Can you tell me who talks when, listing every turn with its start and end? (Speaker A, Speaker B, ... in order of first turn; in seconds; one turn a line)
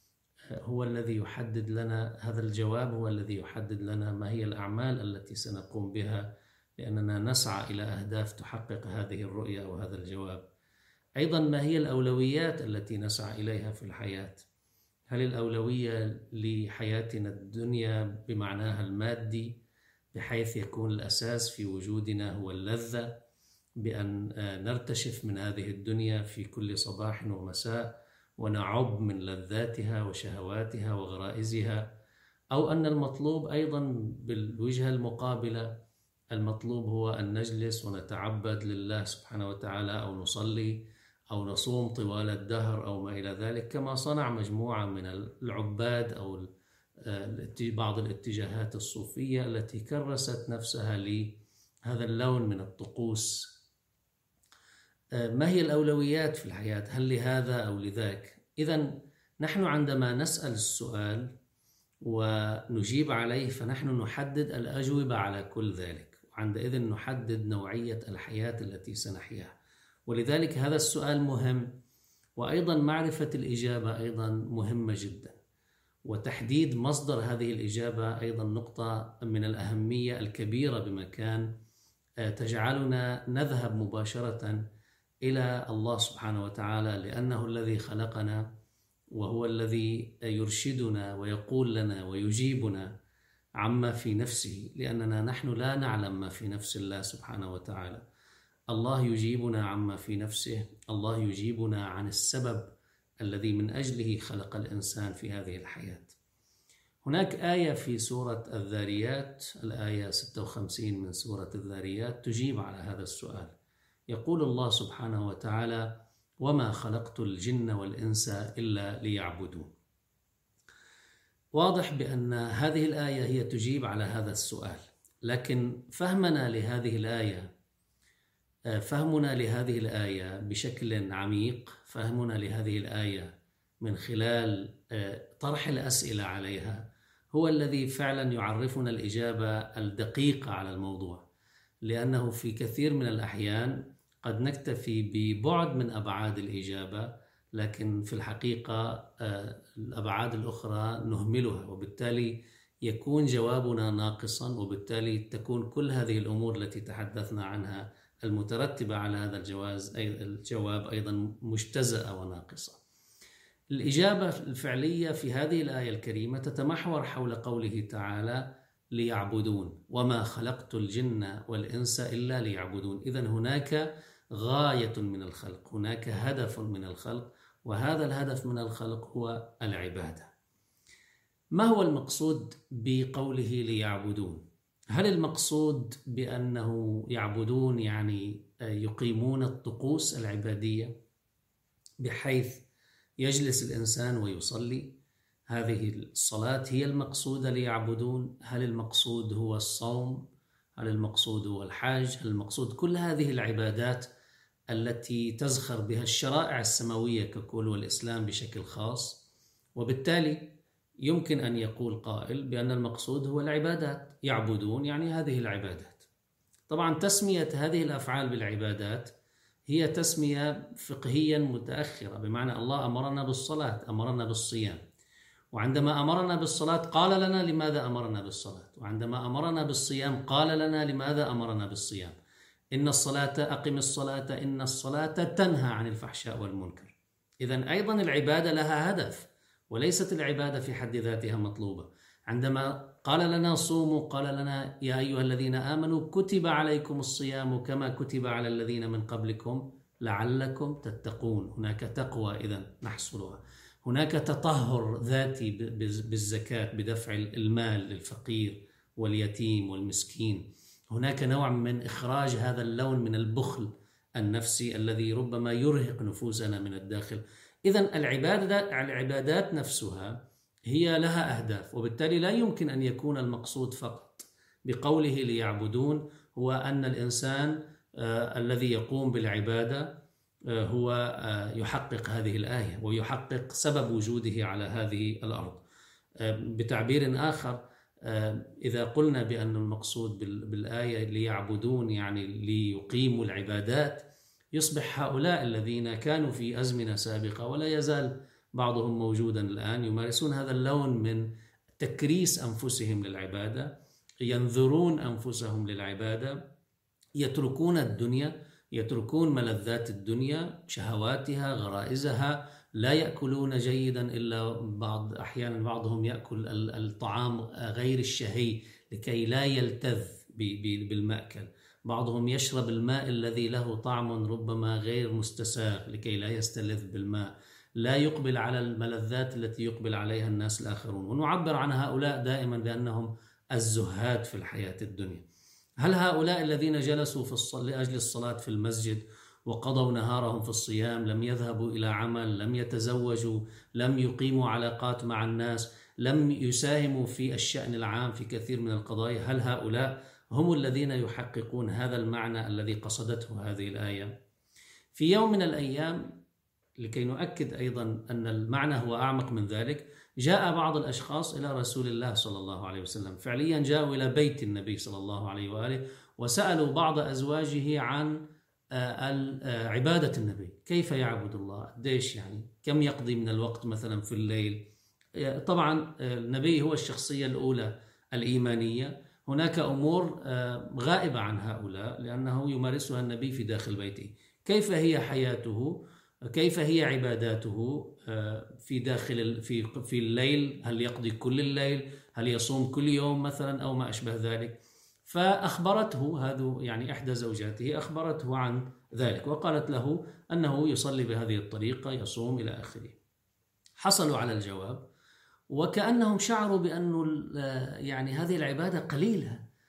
Speaker A: 0.6-6.3
Speaker A: 6.8-10.4
Speaker A: 11.2-14.4
Speaker A: 15.1-19.6
Speaker A: 20.1-23.1
Speaker A: 23.8-31.9
Speaker A: 32.5-35.7
Speaker A: 36.3-46.5
Speaker A: 47.0-53.5
Speaker A: 55.1-61.3
Speaker A: 62.0-69.6
Speaker A: 70.1-71.7
Speaker A: 72.4-75.4
Speaker A: 76.0-81.5
Speaker A: 82.2-84.6
Speaker A: 85.2-88.5
Speaker A: 89.1-92.9
Speaker A: 93.6-98.0
Speaker A: 98.7-106.1
Speaker A: 107.0-113.5
Speaker A: 114.1-119.7
Speaker A: 121.5-127.5
Speaker A: 128.8-141.2
Speaker A: 141.8-162.8
Speaker A: 163.7-180.3
Speaker A: 181.5-190.9
Speaker A: 192.0-192.6
Speaker A: 193.2-194.9
Speaker A: 195.5-200.2
Speaker A: 200.8-204.1
Speaker A: 204.7-209.2
Speaker A: 209.8-210.5
Speaker A: 211.1-216.1
Speaker A: 216.7-219.1
Speaker A: 219.7-224.8
Speaker A: 225.5-232.2
Speaker A: 232.7-279.9
Speaker A: 280.5-285.6
Speaker A: 286.2-301.3
Speaker A: 301.8-306.4
Speaker A: 307.2-335.2
Speaker A: 335.8-354.1
Speaker A: 354.9-356.1
Speaker A: 356.8-368.2
Speaker A: 368.7-374.6
Speaker A: 375.2-403.0
Speaker A: 403.8-404.8
Speaker A: 405.5-409.4